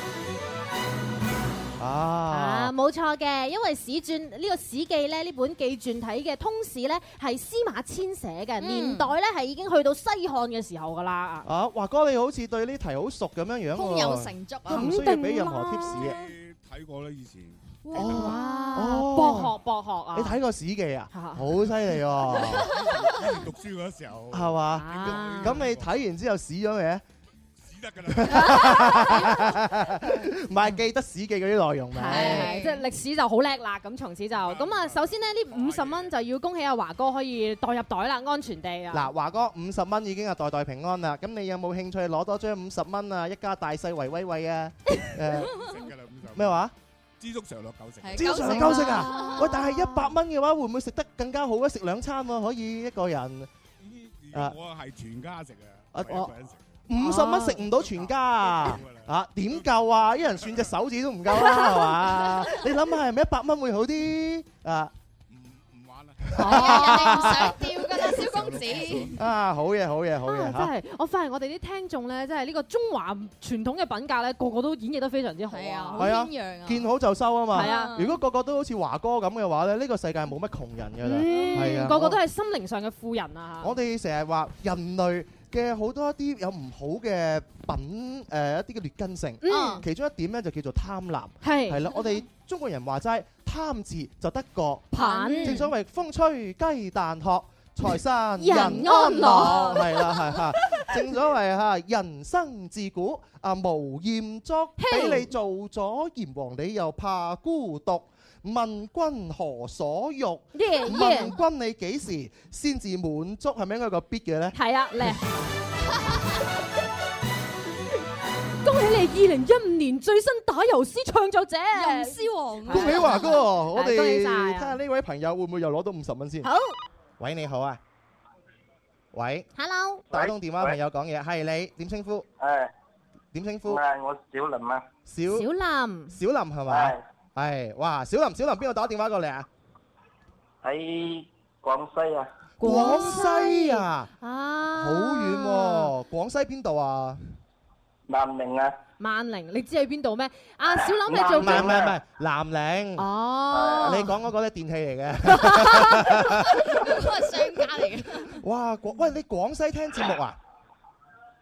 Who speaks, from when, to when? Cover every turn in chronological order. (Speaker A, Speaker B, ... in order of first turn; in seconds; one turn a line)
Speaker A: 1.8-2.7
Speaker B: 2.3-11.5
Speaker C: 8.6-9.1
Speaker A: 11.4-16.2
Speaker C: 13.7-15.0
Speaker B: 14.7-16.0
Speaker D: 15.9-17.6
Speaker C: 17.9-18.8
Speaker B: 17.9-20.4
Speaker A: 17.9-19.6
Speaker A: 20.1-22.7
Speaker B: 21.1-21.5
Speaker D: 22.6-25.9
Speaker A: 24.3-27.0
Speaker B: 24.7-25.7
Speaker D: 27.6-29.0
Speaker A: 28.1-32.5
Speaker B: 28.3-29.6
Speaker B: 31.9-39.1
Speaker C: 32.0-32.8
Speaker D: 34.3-36.1
Speaker A: 38.9-45.6
Speaker D: 45.5-46.6
Speaker A: 46.3-46.7
Speaker D: 47.2-48.5
Speaker C: 48.0-49.6
Speaker A: 48.1-53.5
Speaker B: 48.3-50.0
Speaker D: 53.8-56.8
Speaker A: 55.9-56.3
Speaker A: 56.9-64.9
Speaker B: 57.0-57.6
Speaker D: 57.6-60.7
Speaker B: 61.3-62.0
Speaker D: 65.3-66.6
Speaker A: 66.3-68.1
Speaker B: 66.3-67.3
Speaker C: 66.5-69.1
Speaker D: 68.1-69.2
Speaker A: 69.1-70.7
Speaker B: 70.2-76.1
Speaker C: 75.5-76.9
Speaker A: 76.0-82.2
Speaker C: 77.5-78.2
Speaker B: 77.5-77.9
Speaker B: 81.0-83.7
Speaker C: 81.2-81.8
Speaker A: 83.6-114.5
Speaker B: 89.4-89.8
Speaker C: 89.5-89.8
Speaker B: 91.4-91.8
Speaker B: 94.9-95.7
Speaker C: 95.0-95.6
Speaker B: 98.4-100.3
Speaker C: 99.1-99.8
Speaker B: 104.8-105.3
Speaker B: 110.5-111.3
Speaker B: 114.5-115.2
Speaker B: 118.6-124.8
Speaker C: 121.7-123.4
Speaker A: 122.7-126.5
Speaker B: 126.4-126.8
Speaker A: 127.2-127.8
Speaker A: 129.1-129.4
Speaker B: 129.6-130.0
Speaker A: 130.1-132.2
Speaker E: 130.1-130.8
Speaker E: 132.4-132.7
Speaker A: 133.3-133.8
Speaker E: 133.7-134.8
Speaker A: 135.1-135.5
Speaker B: 135.3-136.2
Speaker A: 136.1-139.5
Speaker E: 136.7-137.0
Speaker E: 140.6-142.3
Speaker A: 142.6-144.1
Speaker B: 142.6-145.9
Speaker A: 144.7-147.2
Speaker E: 148.1-148.7
Speaker B: 149.0-151.8
Speaker E: 151.0-151.9
Speaker A: 151.4-153.1
Speaker B: 153.0-154.1
Speaker E: 153.5-153.9
Speaker A: 153.8-157.1
Speaker B: 155.3-156.1
Speaker C: 156.6-158.4
Speaker A: 158.3-160.4